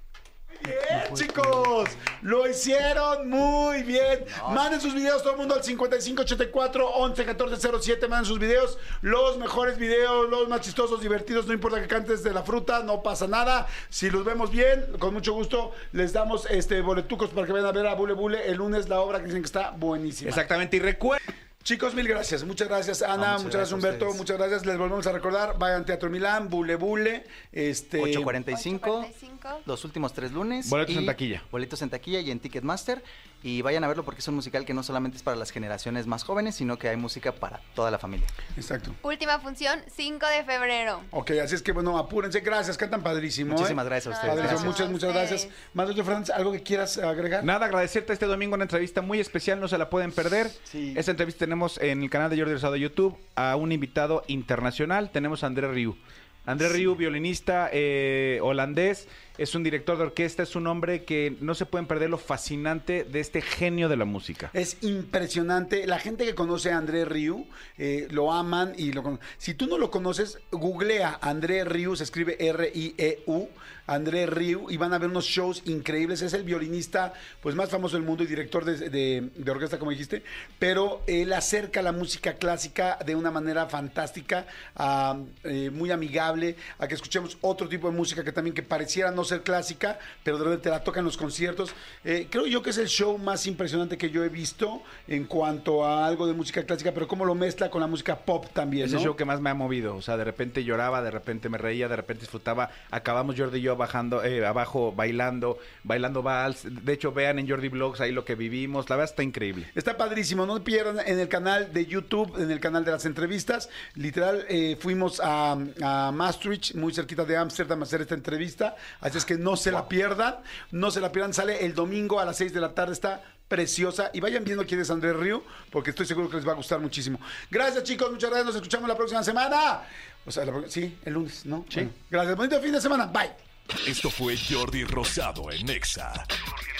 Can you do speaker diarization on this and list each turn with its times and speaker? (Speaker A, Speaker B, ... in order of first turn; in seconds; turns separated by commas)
Speaker A: 0.6-20.4, Speaker B: 0.7-1.7, Speaker B: 4.3-4.7, Speaker C: 20.2-21.2, Speaker A: 21.6-28.4, Speaker B: 23.1-24.2, Speaker B: 28.0-29.1, Speaker D: 28.5-29.6, Speaker B: 29.6-38.3, Speaker C: 30.6-31.5, Speaker A: 38.5-39.0, Speaker D: 39.0-41.1, Speaker A: 41.1-47.5, Speaker B: 43.5-44.8, Speaker D: 44.0-45.5, Speaker C: 47.4-64.5, Speaker A: 50.7-51.0, Speaker A: 64.5-99.1, Speaker C: 98.8-109.7, Speaker A: 109.7-133.4, Speaker E: 133.8-136.3